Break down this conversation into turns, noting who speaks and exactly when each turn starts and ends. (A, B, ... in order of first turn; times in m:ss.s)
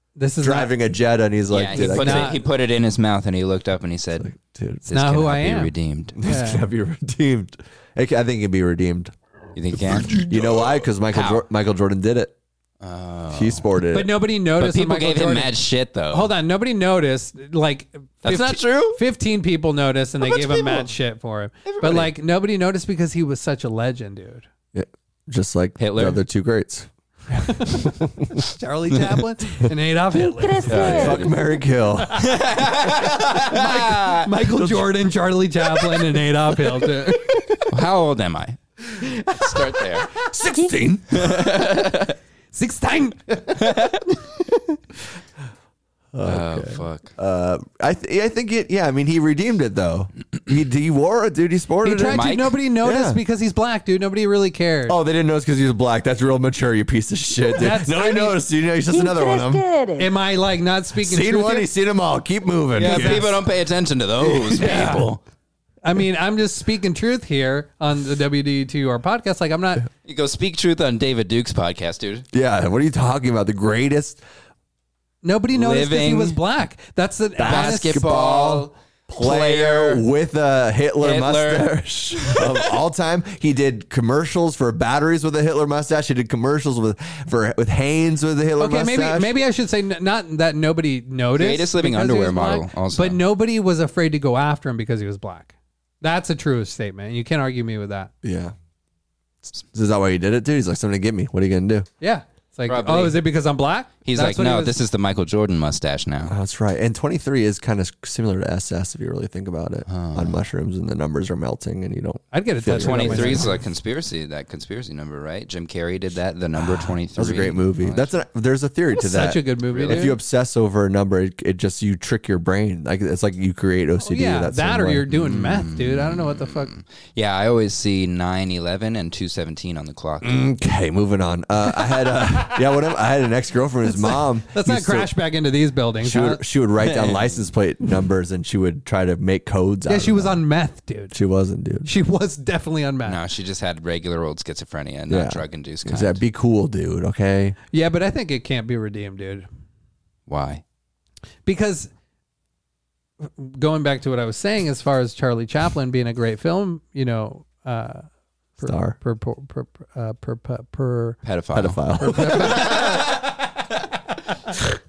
0:00.2-0:00.7 A
0:00.4-0:02.4 B
0:01.5-0:04.3 C
0:01.7-0:02.4 A
0:04.2-0:04.9 B
0:04.9-0:06.2 C
0:04.9-0:06.6 A
0:06.2-0:09.1 B
0:09.5-0:11.4 C
0:10.2-0:12.3 B
0:12.8-0:13.7 C
0:13.3-0:14.2 B
0:13.9-0:15.5 A
0:14.6-0:16.3 C
0:16.1-0:24.4 A
0:18.2-0:19.0 C
0:20.3-0:20.8 C
0:21.6-0:22.1 C
0:24.7-0:28.3 B
0:25.8-0:26.2 C
0:27.4-0:31.1 A
0:30.2-0:31.3 D
0:30.7-0:32.2 B
0:30.7-0:31.3 C
0:32.0-0:32.2 A
0:32.2-0:34.3 C
0:33.3-0:37.4 A
0:34.5-0:35.0 B
0:37.0-0:37.6 B
0:37.7-0:40.2 C
0:38.9-0:39.8 A
0:40.2-0:41.5 B
0:40.5-0:40.8 D
0:41.1-0:42.2 C
0:42.5-0:44.8 A
0:43.6-0:44.0 C
0:46.1-0:52.3 B
0:46.2-0:47.1 C
0:51.8-0:55.0 A
0:52.1-0:52.6 C
0:52.8-0:53.2 B
0:54.9-0:59.6 B
0:57.5-0:58.4 A
0:58.9-1:00.1 D
1:00.0-1:01.7 A
1:01.0-1:03.3 B
1:02.8-1:05.2 C
1:02.8-1:03.3 A
1:04.2-1:04.9 B
1:04.6-1:05.1 A
1:05.8-1:09.9 A
1:10.0-1:12.2 C
1:12.3-1:14.2 B
1:15.2-1:18.0 A
1:15.5-1:16.4 C
1:17.4-1:29.3 B
1:17.4-1:20.0 C
1:21.0-1:22.7 C
1:28.6-1:38.1 A
1:31.3-1:33.2 C
1:38.2-1:38.5 B
1:39.7-1:41.9 B
1:42.0-1:44.8 A
1:42.7-1:43.2 C
1:44.0-1:46.4 C
1:46.3-1:53.6 B
1:49.9-1:50.4 C
1:52.3-1:53.6 A
1:52.7-1:58.1 C
1:56.6-2:05.0 B
1:58.9-2:00.2 A
1:59.7-2:00.1 C
2:04.0-2:06.7 A
2:05.1-2:10.4 C
2:10.2-2:15.1 B
2:13.9-2:16.4 A
2:16.0-2:20.4 B
2:16.8-2:17.4 C
2:19.9-2:21.2 A
2:21.1-2:21.9 B
2:21.8-2:23.2 A
2:23.0-2:26.2 C
2:25.1-2:27.6 B
2:27.7-2:29.4 A
2:30.3-2:30.6 C
2:31.4-2:31.9 A
2:33.2-2:38.0 A
2:38.6-2:41.2 A
2:38.6-2:39.0 B
2:41.2-2:41.8 C
2:41.5-2:43.1 B
2:42.0-2:43.3 A